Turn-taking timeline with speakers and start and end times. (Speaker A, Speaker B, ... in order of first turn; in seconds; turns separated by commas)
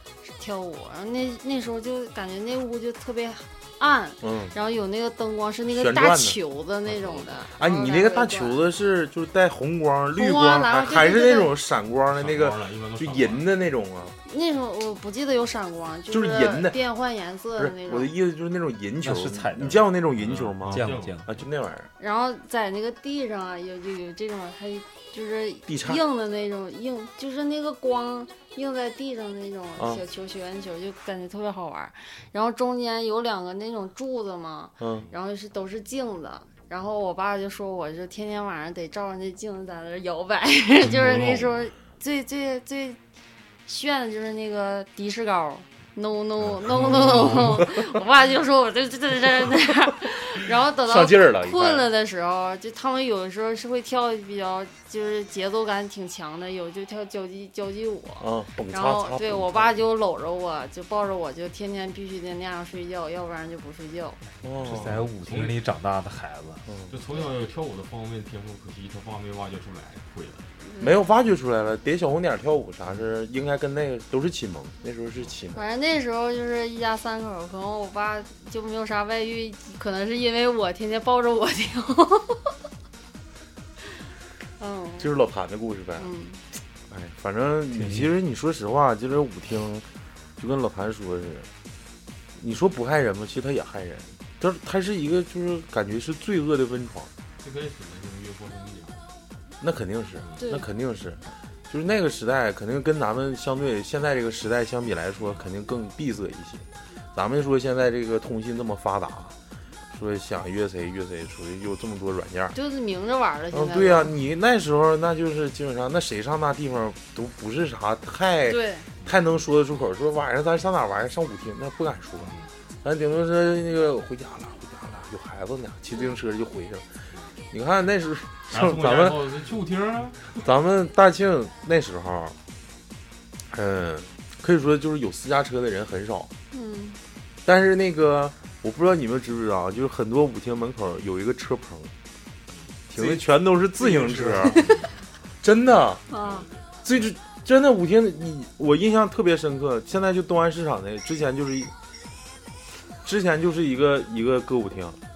Speaker A: 0.2-8.6, Speaker B: 4.2-4.5, Speaker B: 5.7-6.4, Speaker C: 6.9-7.3, Speaker B: 7.5-14.1, Speaker A: 10.1-11.5, Speaker C: 12.1-13.5, Speaker A: 14.2-18.1, Speaker B: 16.1-16.8, Speaker B: 17.6-21.9, Speaker D: 19.0-19.8, Speaker C: 20.2-21.2, Speaker D: 20.6-21.3, Speaker A: 22.0-43.0, Speaker B: 25.7-26.0, Speaker B: 34.8-35.1, Speaker C: 40.8-41.6, Speaker A: 43.7-64.2, Speaker C: 46.6-47.6, Speaker B: 50.9-51.8, Speaker B: 58.2-59.7, Speaker B: 64.4-65.1, Speaker D: 64.6-66.6, Speaker C: 65.2-65.6, Speaker B: 66.7-67.0, Speaker C: 66.9-70.5, Speaker A: 70.6-71.0, Speaker B: 70.8-75.6, Speaker A: 75.5-82.5, Speaker A: 84.6-85.1, Speaker B: 85.0-86.1, Speaker A: 86.0-86.4, Speaker B: 86.9-89.8, Speaker D: 87.7-88.1, Speaker B: 90.4-91.5, Speaker B: 92.4-97.1, Speaker C: 97.4-99.1, Speaker B: 99.6-109.3, Speaker A: 100.4-100.7, Speaker B: 109.9-112.5, Speaker A: 112.5-114.1, Speaker B: 113.5-126.8, Speaker A: 118.5-118.9, Speaker C: 122.2-122.5, Speaker B: 127.5-129.3, Speaker C: 128.5-130.4, Speaker B: 130.4-132.4, Speaker B: 133.5-136.3, Speaker A: 136.5-137.0, Speaker B: 137.4-141.9, Speaker C: 142.5-143.2, Speaker B: 142.9-144.7, Speaker C: 143.7-144.9, Speaker B: 145.4-146.0, Speaker C: 146.1-146.6, Speaker A: 146.1-146.4, Speaker B: 146.8-151.7, Speaker B: 153.0-155.0